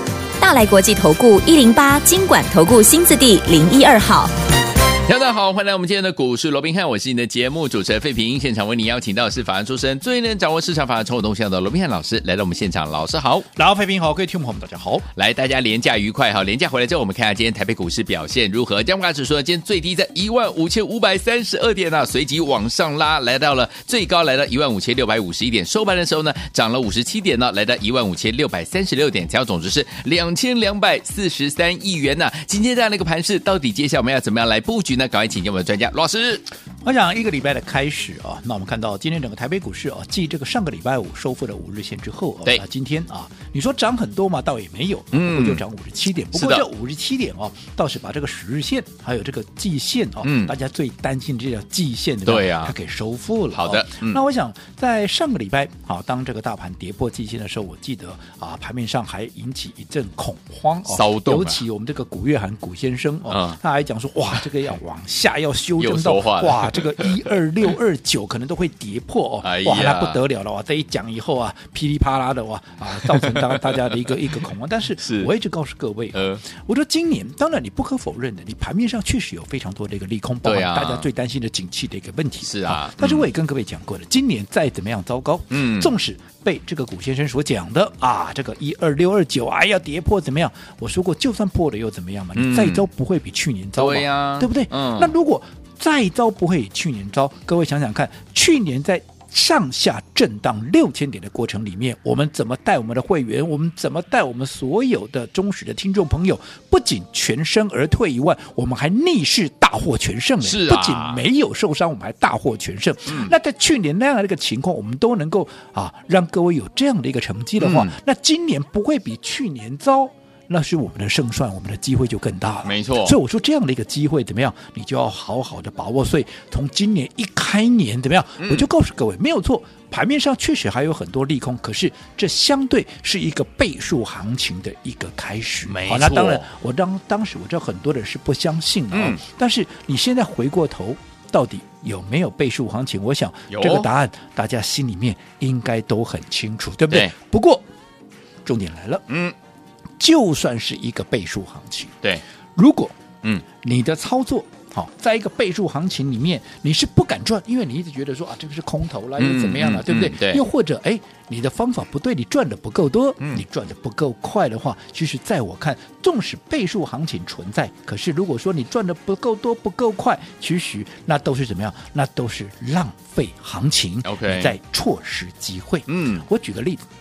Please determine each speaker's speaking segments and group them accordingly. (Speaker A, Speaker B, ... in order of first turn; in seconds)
Speaker A: 0.4-4.3
Speaker B: 5.0-13.5, 15.2-36.5, 45.1-45.6, 46.3-46.7, 50.2-50.5, 52.3-52.7, 53.5-54.2, 60.9-61.6, 63.3-63.6, 65.8-67.3, 69.4-70.2, 73.1-74.0, 75.0-75.3, 76.2-76.4, 80.4-81.1, 82.4-83.3, 85.5-85.9, 92.3-92.9, 93.8-95.1, 110.4-111.2, 113.1-113.3, 117.6-117.9, 122.6-123.2, 128.4-128.7, 135.7-136.5, 138.9-139.2, 143.5-143.9, 149.1-149.3, 159.2-160.4, 174.0-174.6, 175.9-176.3
Speaker C: 13.6-15.1, 36.8-147.7, 148.4-149.0, 150.0-151.9, 152.6-153.0, 153.6-176.8